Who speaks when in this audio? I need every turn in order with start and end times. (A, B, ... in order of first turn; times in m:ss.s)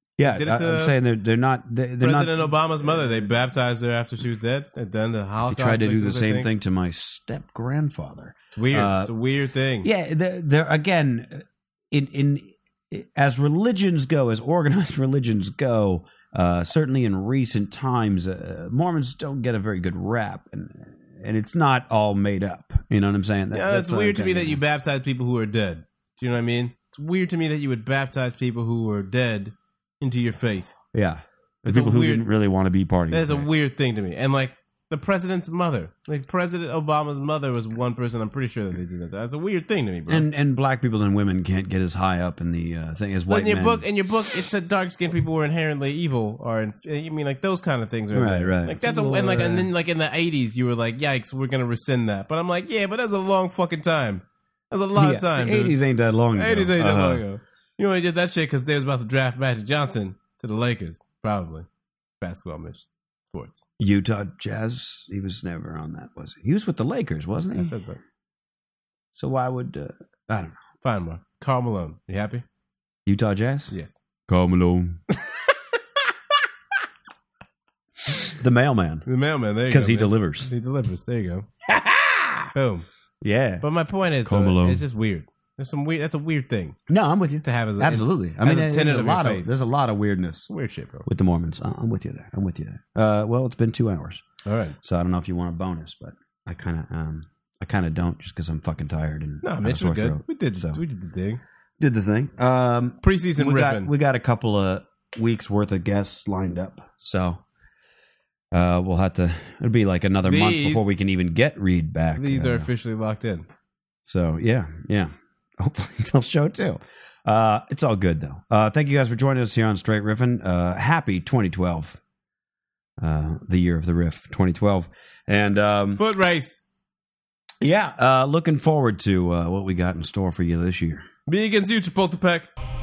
0:00.2-0:03.2 A
0:00.3-0:00.9 B
0:02.0-0:06.5 B
0:05.4-0:09.1 A
0:08.5-0:09.9 B
0:09.8-0:24.6 A
0:23.5-0:30.7 B
0:30.9-0:33.5 A
0:31.6-0:32.3 B
0:33.1-0:40.3 B
0:40.1-0:43.8 A
0:43.3-0:55.8 B
0:48.1-0:49.7 A
0:54.9-0:57.2 A
0:56.4-1:01.6 B
1:02.2-1:03.6 B
1:03.8-1:07.7 A
1:07.5-1:08.0 B
1:09.1-1:10.6 A
1:10.8-1:12.4 B
1:13.0-1:13.7 A
1:13.7-1:14.0 B
1:14.3-1:15.0 A
1:18.4-1:19.1 A
1:19.0-1:21.5 B
1:19.7-1:20.5 A
1:21.6-1:22.5 A
1:22.5-1:22.8 B
1:23.2-1:23.6 A
1:23.6-1:26.8 B
1:24.2-1:24.8 A
1:26.9-1:30.5 A
1:27.4-1:29.5 B
1:30.5-1:31.1 B
1:31.0-1:34.2 A
1:34.4-1:34.8 B
1:34.8-1:40.8 A
1:39.4-1:41.4 B
1:41.8-1:47.4 A
1:43.0-1:43.9 B
1:48.5-1:52.7 A
1:50.2-1:50.9 B
1:52.2-1:53.4 B
1:54.1-2:02.0 A
2:03.0-2:06.0 A
2:06.0-2:06.6 B
2:07.6-2:11.0 A
2:11.3-2:12.5 B